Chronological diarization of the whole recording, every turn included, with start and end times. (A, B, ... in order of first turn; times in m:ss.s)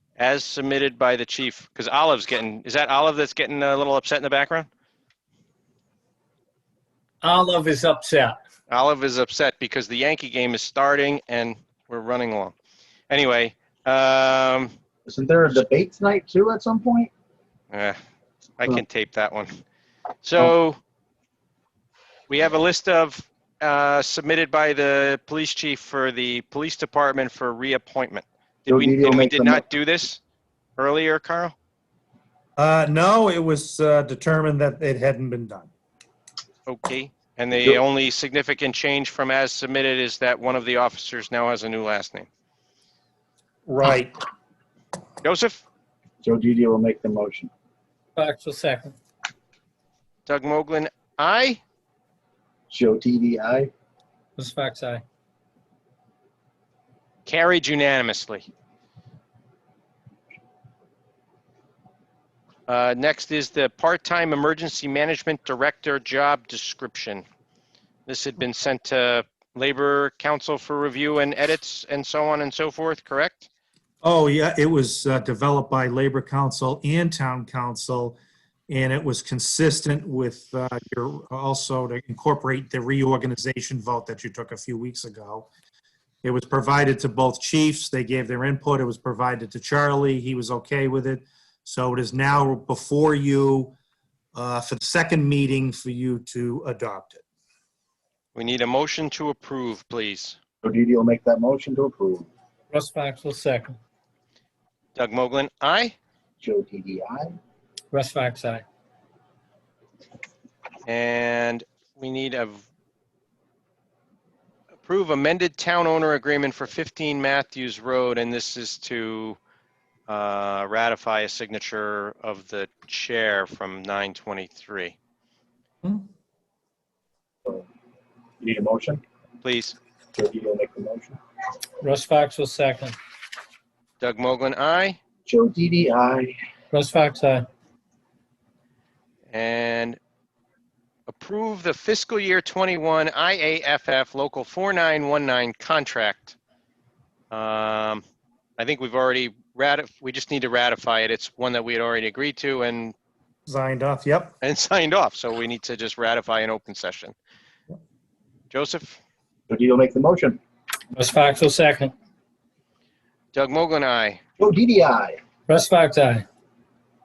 0:00.2-0:04.7 A
0:07.2-0:08.3 B
0:08.7-0:12.5 A
0:13.1-0:14.7 A
0:15.0-0:17.1 C
0:17.7-0:18.0 A
0:18.6-0:19.6 A
0:20.2-0:20.8 A
0:22.3-0:30.2 A
0:28.7-0:29.6 C
0:30.8-0:31.5 A
0:32.6-0:35.7 D
0:36.7-0:42.3 A
0:43.7-0:44.1 D
0:45.2-0:45.6 A
0:46.2-0:47.5 C
0:48.1-0:48.9 B
0:50.2-0:51.6 A
0:52.7-0:53.7 C
0:54.4-0:55.0 B
0:57.2-0:58.5 A
1:02.7-1:07.2 A
1:08.1-1:13.5 A
1:14.0-1:18.2 D
1:18.7-1:25.5 D
1:26.2-1:33.7 D
1:34.3-1:37.2 D
1:38.3-1:40.4 A
1:40.6-1:42.3 C
1:42.7-1:43.8 B
1:45.0-1:45.9 A
1:46.4-1:47.4 C
1:47.9-1:48.6 B
1:50.8-1:52.6 A
1:54.8-1:59.4 A
2:00.1-2:04.9 A
2:08.4-2:09.0 C
2:09.4-2:09.8 A
2:10.1-2:11.2 C
2:11.8-2:12.9 B
2:14.0-2:15.0 A
2:15.2-2:16.3 C
2:16.7-2:17.4 B
2:19.3-2:20.0 A
2:21.1-2:26.4 A
2:27.3-2:28.0 A
2:28.6-2:32.9 A
2:33.5-2:34.4 D
2:34.4-2:37.1 A
2:38.5-2:39.0 A
2:39.5-2:40.4 C
2:40.9-2:41.9 B
2:43.3-2:44.2 A
2:44.4-2:45.2 C
2:45.5-2:46.2 B